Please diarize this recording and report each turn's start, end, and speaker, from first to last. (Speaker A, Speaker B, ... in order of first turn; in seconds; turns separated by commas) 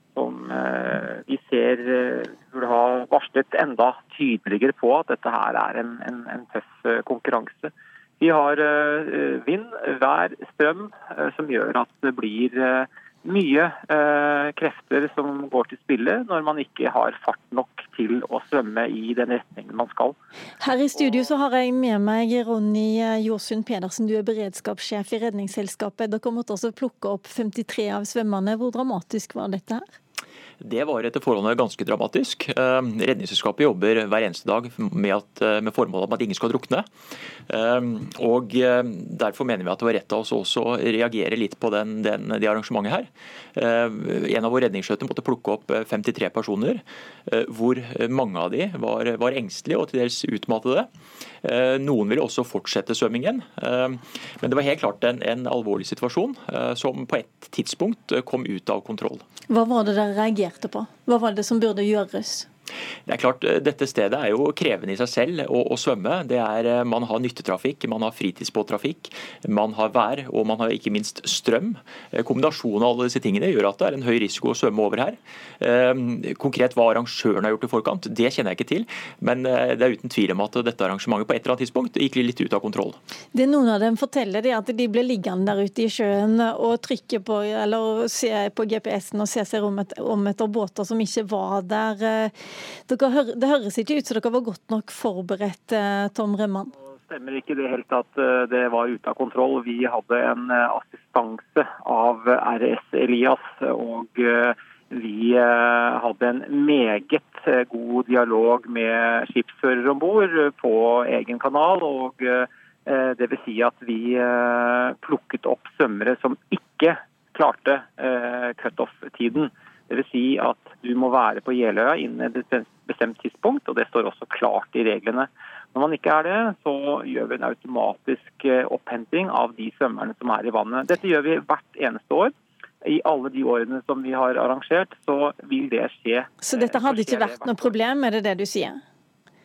Speaker A: 0.1-20.1, Speaker B: 20.6-29.9, Speaker A: 21.0-21.4, Speaker C: 30.6-36.9, Speaker C: 37.5-50.9, Speaker C: 51.4-59.2, Speaker B: 59.5-62.5, Speaker C: 63.1-83.0, Speaker B: 83.3-92.3, Speaker B: 92.9-96.7, Speaker A: 97.0-137.8, Speaker B: 136.4-138.8